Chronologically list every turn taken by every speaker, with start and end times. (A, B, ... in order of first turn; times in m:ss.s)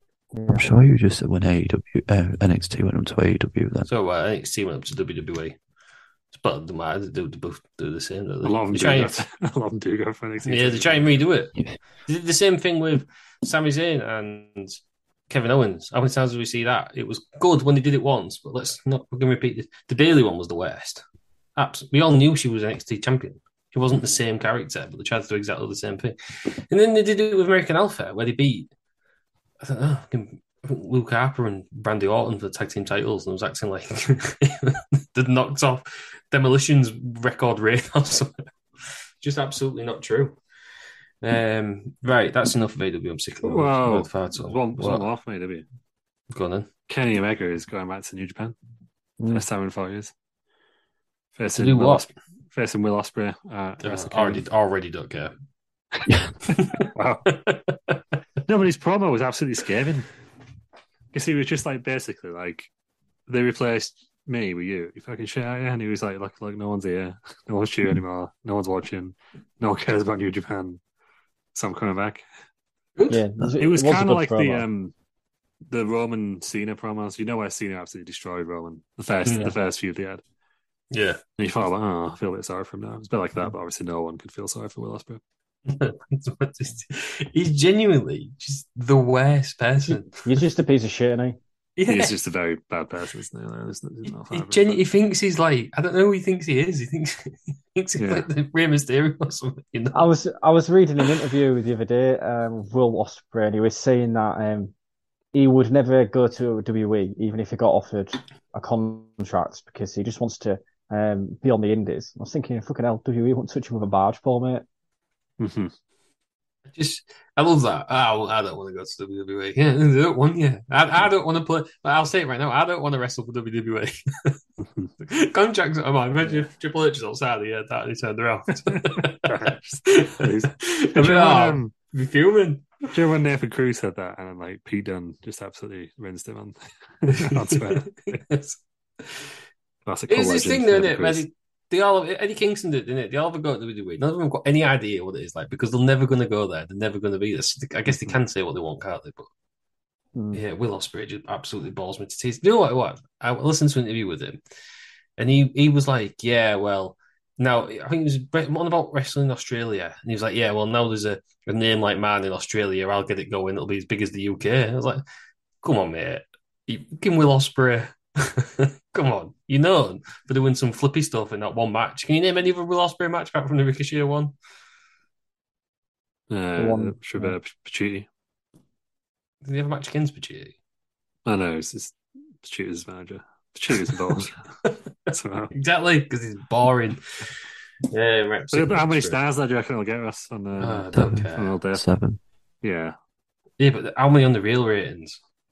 0:00.3-0:00.6 A
0:00.5-0:03.9 B
0:03.9-0:05.6 C
0:06.3-0:09.2 C
0:08.4-0:11.2 D
0:10.4-0:11.5 C
0:12.1-0:21.0 C
0:21.6-0:26.2 C
0:26.7-0:28.7 C
0:29.6-0:38.5 C
0:39.2-0:40.4 C
0:41.2-0:45.1 C
0:43.4-0:45.6 D
0:46.3-0:46.7 C
0:46.9-0:48.6 D
0:49.2-0:49.4 A
0:49.3-0:50.1 D
0:51.4-0:54.4 D
0:51.6-0:52.1 C
0:53.8-0:55.3 C
0:56.6-0:58.0 C
0:56.7-0:57.2 D
0:58.5-1:00.1 D
1:01.1-1:02.7 D
1:03.3-1:10.8 D
1:11.5-1:12.2 D
1:13.0-1:13.2 C
1:13.1-1:14.6 A
1:13.6-1:14.9 D
1:15.7-1:20.2 D
1:19.2-1:19.5 C
1:20.9-1:21.2 C
1:21.4-1:25.2 D
1:25.7-1:30.4 C
1:29.9-1:31.4 A
1:31.8-1:32.2 C
1:31.9-1:34.8 D
1:34.1-1:40.0 C
1:38.0-1:38.3 D
1:39.9-1:44.7 A
1:45.3-1:54.7 A
1:55.4-1:55.7 D
1:56.8-2:04.4 C
2:05.0-2:12.9 C
2:08.7-2:11.7 D
2:12.9-2:18.2 D
2:17.4-2:19.2 C
2:19.9-2:21.2 D
2:20.1-2:29.3 C
2:30.3-2:34.4 C
2:35.2-2:45.0 C
2:45.6-2:54.3 C
2:56.3-2:58.1 D
2:56.6-2:57.4 A
2:59.4-3:00.5 C
3:01.3-3:04.4 D
3:05.1-3:05.5 D
3:05.5-3:07.0 C
3:07.9-3:09.2 C
3:08.5-3:11.8 D
3:10.6-3:11.5 C
3:11.0-3:12.2 B
3:12.6-3:13.0 D
3:13.6-3:15.2 C